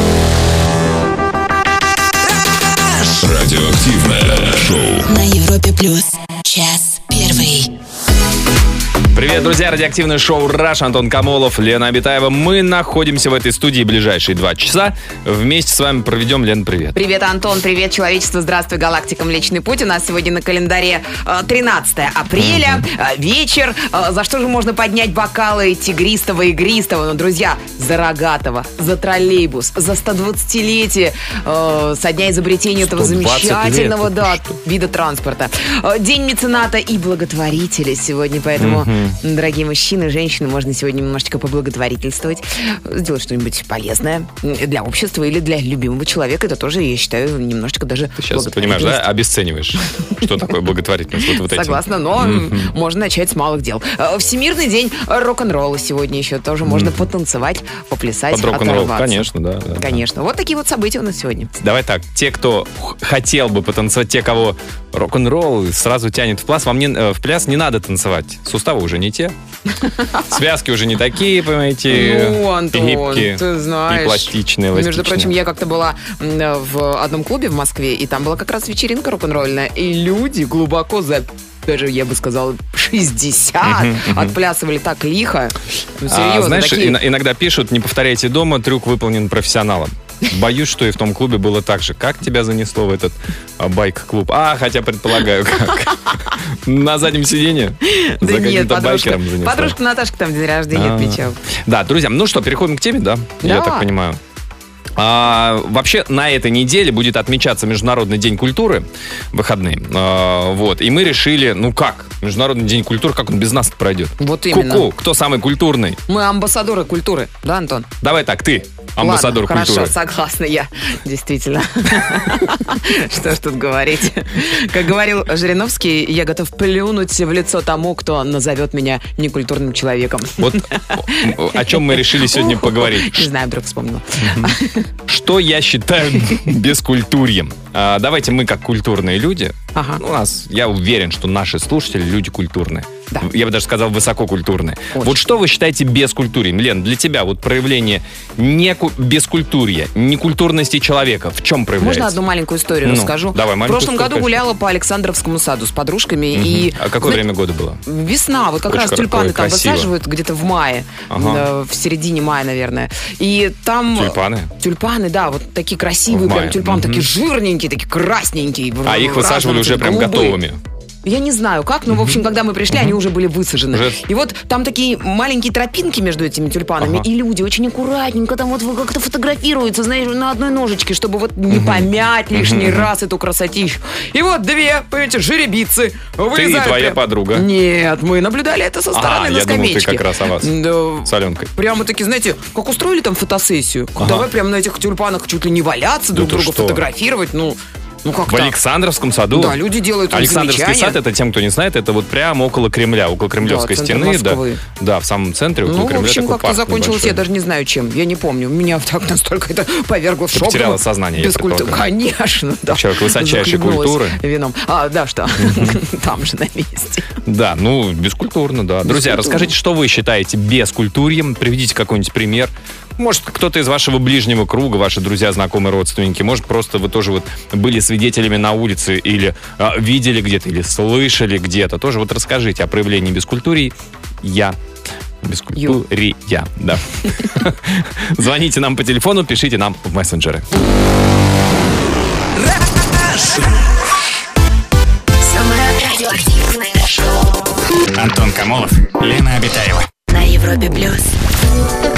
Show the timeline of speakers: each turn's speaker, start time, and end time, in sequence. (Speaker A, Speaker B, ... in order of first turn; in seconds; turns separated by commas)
Speaker A: 3.1-5.1, Speaker B: 5.0-7.7, Speaker C: 9.1-17.0, Speaker D: 16.9-49.0, Speaker C: 22.4-22.8, Speaker C: 32.8-34.6, Speaker C: 38.6-39.2, Speaker C: 48.2-52.7, Speaker D: 51.3-61.5, Speaker C: 56.6-57.0, Speaker C: 58.3-60.0, Speaker C: 61.5-69.3, Speaker D: 69.8-70.3, Speaker C: 70.3-75.3, Speaker D: 71.9-87.0, Speaker C: 83.6-84.3, Speaker C: 86.0-99.8, Speaker D: 97.8-101.4, Speaker C: 100.7-104.2, Speaker D: 103.4-103.9, Speaker C: 105.0-116.0, Speaker D: 114.2-114.9, Speaker D: 116.1-117.9, Speaker C: 118.0-119.9, Speaker D: 119.0-134.9, Speaker C: 130.4-133.3, Speaker C: 134.2-134.5, Speaker C: 135.1-152.2, Speaker D: 139.7-140.0, Speaker D: 144.9-145.3, Speaker D: 151.8-157.2, Speaker C: 152.8-154.4, Speaker C: 156.3-157.8, Speaker D: 157.8-170.4, Speaker C: 158.7-159.9, Speaker C: 161.1-161.4, Speaker C: 163.9-164.5, Speaker C: 166.1-167.1, Speaker C: 168.8-170.6, Speaker D: 171.0-198.5, Speaker C: 171.9-172.2, Speaker C: 172.7-173.0, Speaker C: 173.7-174.0, Speaker C: 176.8-177.1, Speaker C: 181.5-182.9, Speaker C: 186.3-187.4, Speaker C: 188.9-191.5, Speaker C: 194.0-194.3, Speaker C: 196.1-196.8, Speaker C: 198.2-207.2, Speaker D: 199.3-201.0, Speaker D: 203.4-204.6, Speaker D: 205.6-217.2, Speaker C: 210.3-211.8, Speaker C: 212.7-214.2, Speaker C: 215.4-215.8, Speaker C: 217.2-234.6, Speaker D: 218.8-219.5, Speaker C: 235.2-240.5, Speaker D: 235.6-235.8, Speaker C: 242.5-243.4, Speaker B: 245.2-247.3, Speaker E: 247.9-249.9, Speaker B: 250.1-251.2